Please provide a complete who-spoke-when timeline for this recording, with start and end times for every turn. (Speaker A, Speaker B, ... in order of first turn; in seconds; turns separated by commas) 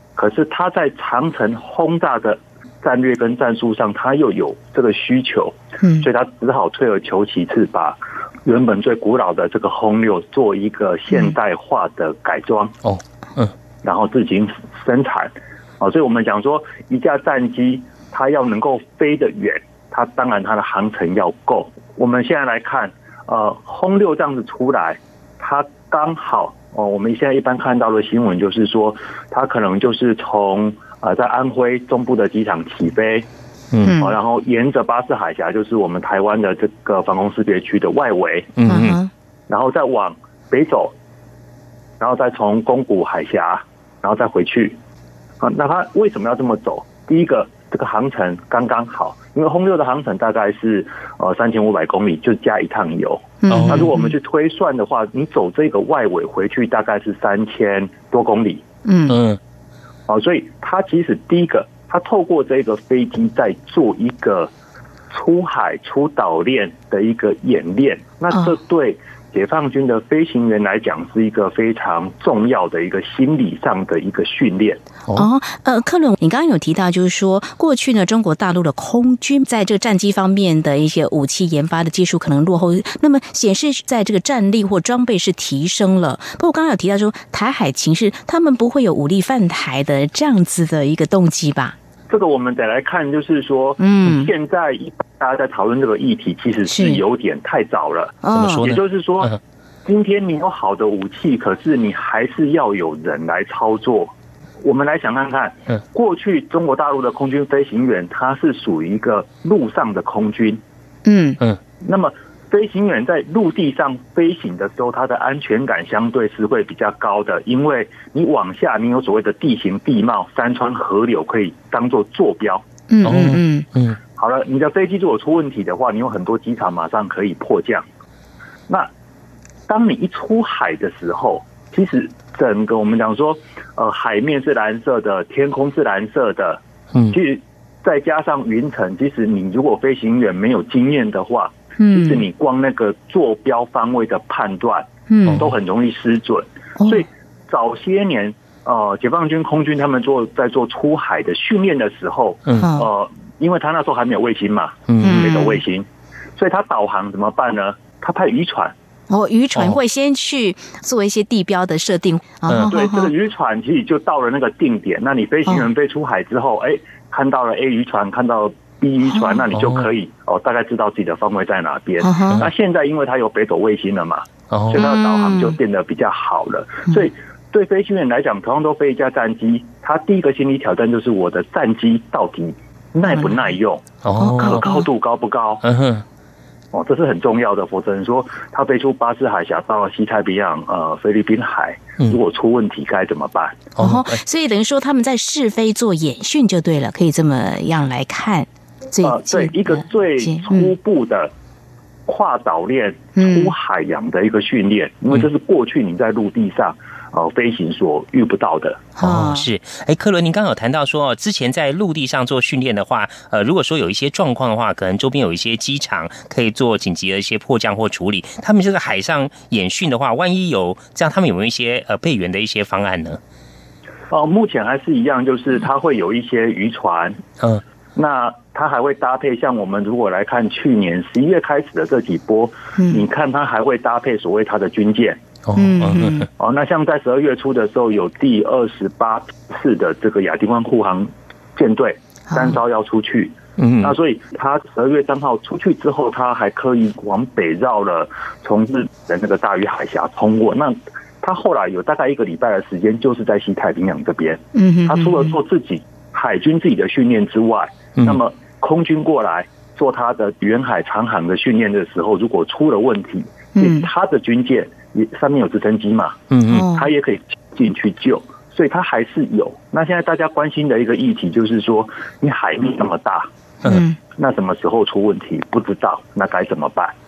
Speaker A: 0.1-12.7, Speaker B: 5.8-6.1, Speaker C: 12.8-13.5, Speaker A: 13.8-33.3, Speaker B: 33.8-34.2, Speaker A: 34.0-38.5, Speaker C: 38.6-39.0, Speaker B: 38.7-39.1, Speaker A: 39.5-40.9, Speaker A: 42.0-44.8, Speaker A: 45.4-58.6, Speaker B: 53.4-54.1, Speaker C: 53.5-53.9, Speaker B: 58.8-59.2, Speaker C: 59.1-59.4, Speaker A: 60.1-64.5, Speaker A: 65.1-74.8, Speaker B: 75.1-91.8, Speaker A: 92.1-110.6, Speaker B: 93.8-94.3, Speaker B: 96.7-97.0, Speaker B: 98.2-98.7, Speaker C: 98.3-99.4, Speaker B: 111.0-111.4, Speaker A: 111.8-122.6, Speaker B: 122.9-123.7, Speaker C: 123.0-124.0, Speaker A: 124.2-127.8, Speaker A: 129.7-158.7, Speaker B: 141.8-142.2, Speaker B: 145.1-145.4, Speaker B: 146.8-147.1, Speaker B: 152.5-152.9, Speaker C: 154.9-155.2, Speaker B: 155.0-155.6, Speaker B: 159.1-163.1, Speaker A: 162.6-185.6, Speaker C: 169.5-169.9, Speaker B: 172.0-172.4, Speaker C: 174.5-174.8, Speaker B: 174.7-175.5, Speaker C: 184.0-184.6, Speaker B: 184.2-184.8, Speaker C: 185.6-186.0, Speaker A: 186.7-193.7, Speaker C: 193.8-194.2, Speaker B: 193.8-200.7, Speaker A: 199.0-201.3, Speaker A: 202.1-208.9, Speaker B: 203.2-203.5, Speaker B: 209.0-209.5, Speaker C: 209.0-223.2, Speaker A: 224.1-227.2, Speaker A: 227.9-235.2, Speaker B: 232.8-233.0, Speaker C: 235.4-236.3, Speaker B: 235.5-236.3, Speaker A: 236.4-266.2, Speaker B: 242.3-242.6, Speaker C: 243.6-243.9, Speaker B: 254.5-255.3, Speaker B: 263.6-263.9, Speaker C: 266.3-266.7, Speaker B: 266.5-266.9, Speaker A: 266.7-273.3, Speaker B: 273.6-274.0, Speaker A: 274.1-276.9